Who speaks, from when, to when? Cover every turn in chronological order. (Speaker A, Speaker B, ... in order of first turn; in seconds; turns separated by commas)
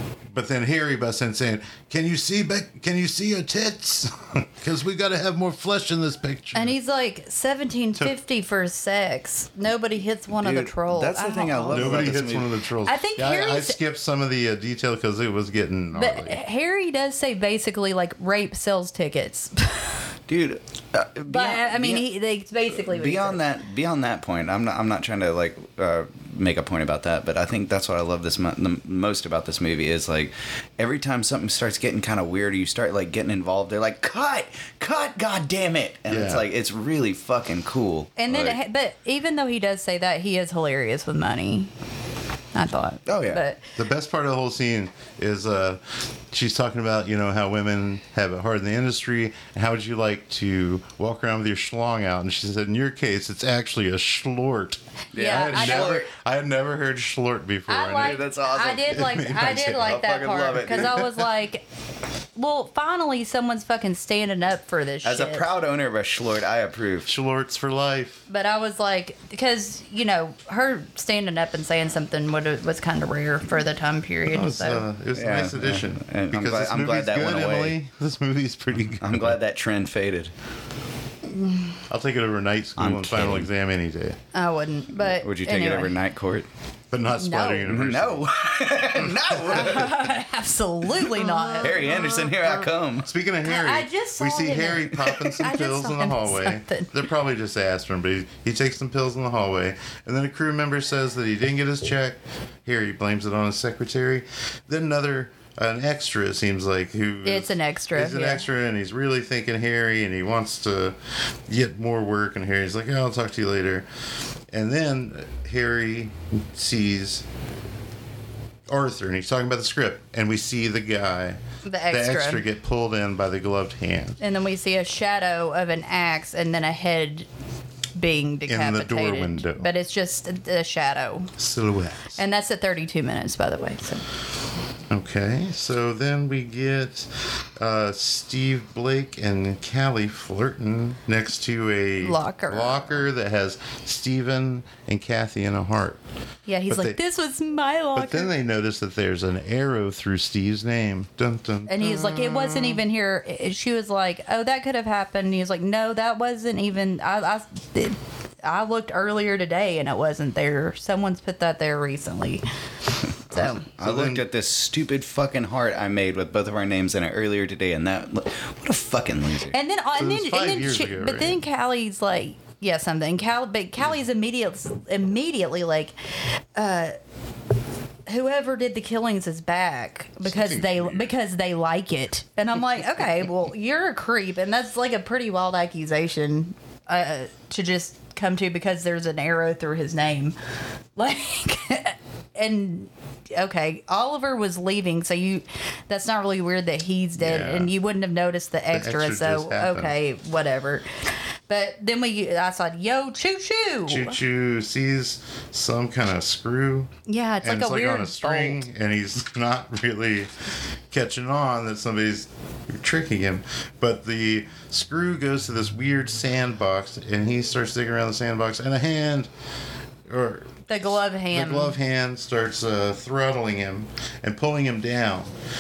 Speaker A: 0.3-6.8, Speaker B: 6.5-12.1, Speaker C: 10.3-12.6, Speaker A: 11.7-16.4, Speaker B: 12.8-13.8, Speaker B: 15.9-20.0, Speaker C: 20.3-22.1, Speaker B: 21.3-23.4, Speaker C: 22.7-38.6, Speaker A: 36.1-36.5, Speaker B: 38.2-41.7, Speaker B: 42.5-43.6, Speaker C: 43.1-43.4, Speaker A: 43.8-58.2, Speaker C: 55.1-56.1, Speaker B: 55.1-56.0, Speaker B: 57.7-61.7, Speaker C: 58.0-61.1, Speaker A: 58.9-60.0, Speaker A: 60.7-61.2, Speaker B: 62.4-65.5, Speaker C: 65.0-67.1, Speaker A: 67.1-68.2, Speaker B: 68.3-74.8, Speaker A: 74.3-79.4, Speaker C: 75.2-77.8, Speaker C: 79.0-80.3, Speaker B: 81.3-81.8, Speaker A: 81.9-84.2, Speaker C: 82.8-83.5, Speaker B: 84.3-86.0, Speaker C: 85.1-86.5, Speaker A: 86.9-88.3, Speaker B: 87.2-87.7, Speaker C: 87.7-90.0, Speaker B: 89.5-92.4, Speaker C: 91.0-93.1, Speaker A: 91.6-111.0, Speaker B: 93.4-96.9, Speaker B: 107.2-108.4, Speaker A: 111.5-113.9, Speaker A: 114.5-117.2, Speaker A: 118.7-124.2, Speaker B: 121.7-122.4, Speaker B: 124.2-127.3, Speaker B: 128.0-131.3, Speaker A: 128.5-129.7, Speaker A: 131.4-132.2, Speaker B: 132.2-134.1, Speaker A: 134.9-146.0, Speaker B: 142.0-143.0, Speaker B: 146.5-148.3, Speaker A: 146.7-147.0, Speaker A: 147.9-152.8, Speaker B: 151.7-162.4, Speaker B: 163.2-163.7, Speaker A: 163.3-164.2, Speaker C: 163.8-169.6, Speaker B: 169.5-175.9, Speaker A: 169.9-171.4, Speaker B: 176.6-176.9, Speaker B: 178.1-190.4, Speaker A: 180.2-181.2, Speaker B: 191.0-204.2, Speaker A: 197.2-197.7, Speaker A: 198.7-199.9, Speaker A: 203.9-206.9, Speaker B: 207.1-208.6, Speaker A: 207.4-210.3, Speaker A: 210.9-219.3, Speaker A: 220.1-225.3, Speaker B: 220.7-221.8